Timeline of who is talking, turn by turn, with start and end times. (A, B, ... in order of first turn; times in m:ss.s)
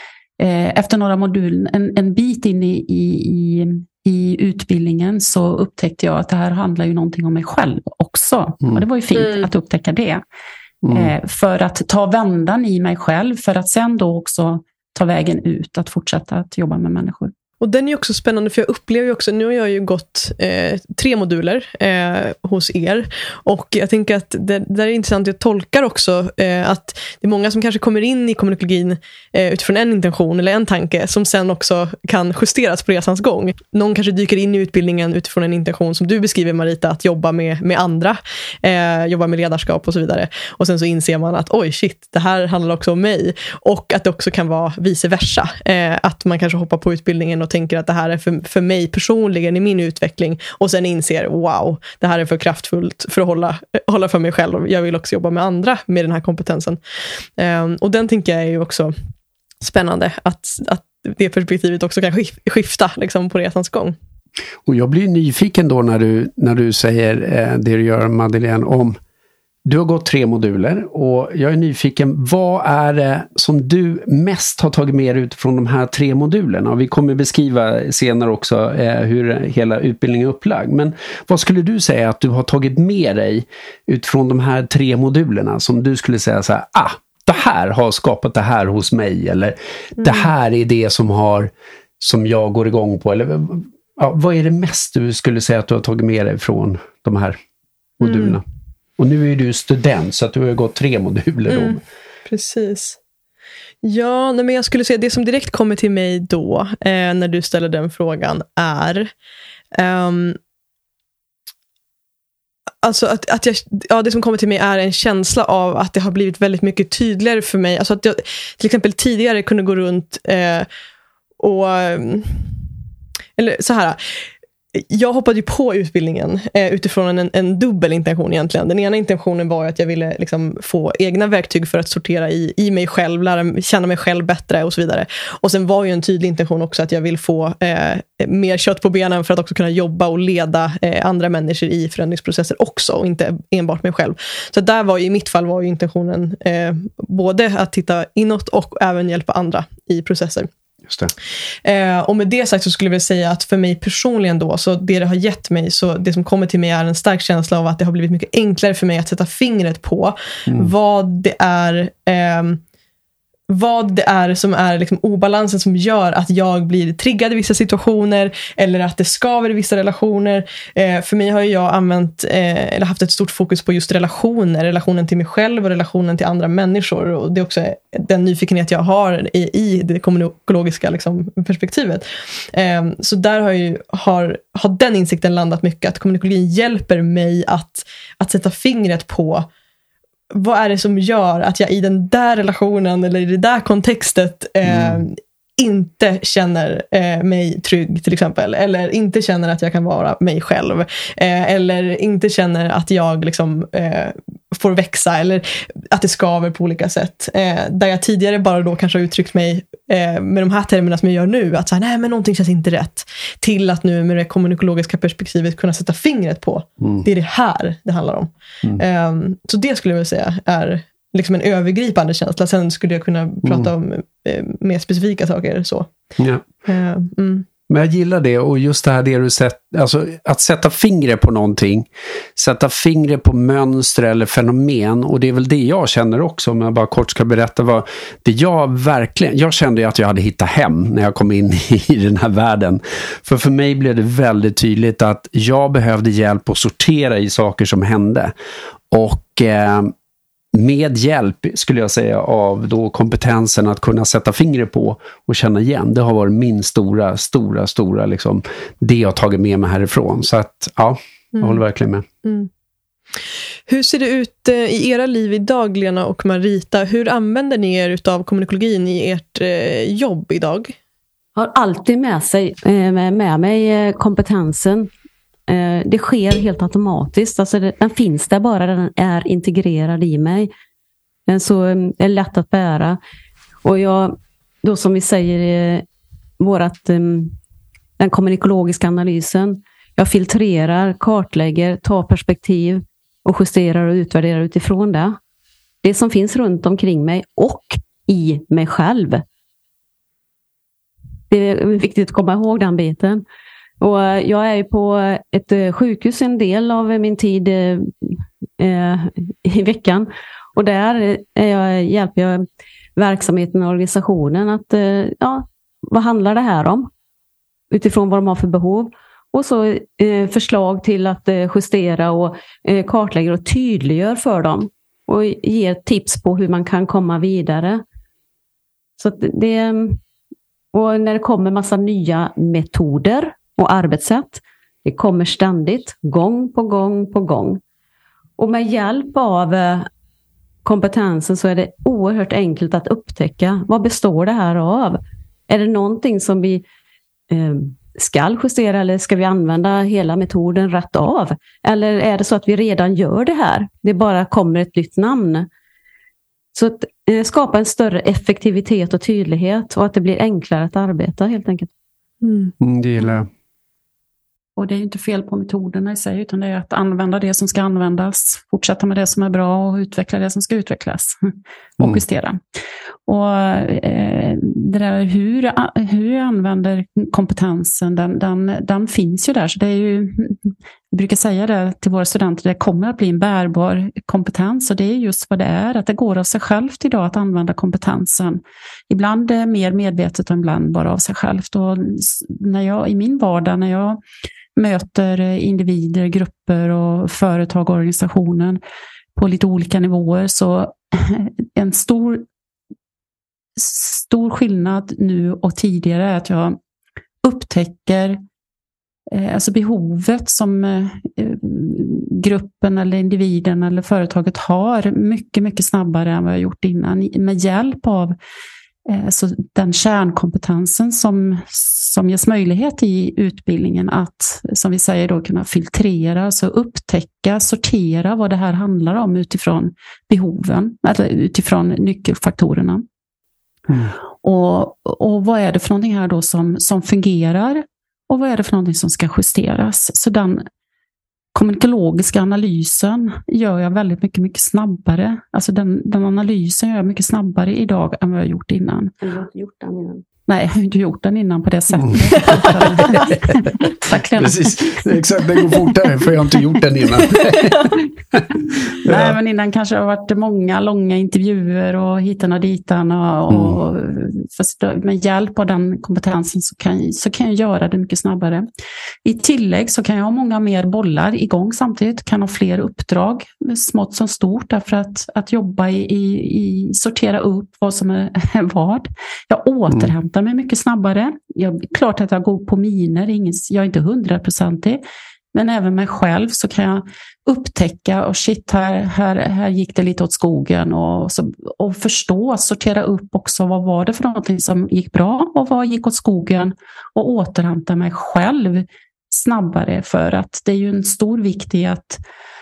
0:00.4-0:10.2 A
0:09.2-0:09.5 B
0:10.9-0:17.3 A
0:17.6-0:56.8 B
0:57.4-0:58.9 B
0:59.6-1:04.0 B
1:04.6-1:09.0 C
1:09.7-1:37.4 C
1:30.0-1:30.3 B
1:38.0-1:38.4 C
1:38.0-1:38.4 B
1:39.0-1:41.8 C
1:41.5-1:43.0 B
1:43.8-1:49.1 B
1:49.7-1:50.4 B
1:52.8-2:00.7 B
2:01.4-2:02.5 B
2:03.4-2:30.5 B
2:31.6-2:42.6 B
2:40.5-2:40.7 C
2:43.5-3:09.5 B
3:10.3-3:45.9 B
3:14.7-3:15.0 C
3:36.8-3:37.1 C
3:43.4-3:43.7 C
3:46.2-3:46.4 C
3:46.6-3:47.5 B
3:47.7-4:08.3 C
4:08.9-4:09.9 C
4:10.5-4:22.1 C
4:21.3-4:21.6 B
4:22.2-4:22.5 B
4:23.7-4:30.8 B
4:31.4-4:34.9 D
4:35.5-4:40.5 D
4:41.3-4:43.0 D
4:43.6-4:45.9 D
4:46.4-4:47.4 D
4:48.0-4:55.2 D
4:55.8-4:59.2 D
5:01.3-5:03.2 D
5:03.8-5:16.9 D
5:17.7-5:27.8 D
5:29.0-5:30.0 D
5:30.7-5:37.6 D
5:38.4-5:39.9 D
5:40.6-5:46.6 D
5:47.3-5:55.5 D
5:56.5-6:01.7 D
6:02.2-6:02.5 B
6:02.6-6:03.3 C
6:04.6-6:12.4 A
6:13.1-6:34.0 A
6:34.6-6:38.6 A
6:39.2-6:42.2 A
6:43.6-6:46.6 A
6:47.2-6:48.2 A
6:49.1-6:58.2 A
6:58.9-7:12.8 A
7:14.2-7:20.4 A
7:21.4-7:29.0 A
7:29.0-7:30.0 D
7:30.3-7:34.9 A
7:34.2-7:38.2 C
7:38.8-7:39.2 C
7:38.8-7:48.5 A
7:49.0-8:04.8 A
8:05.3-8:22.0 A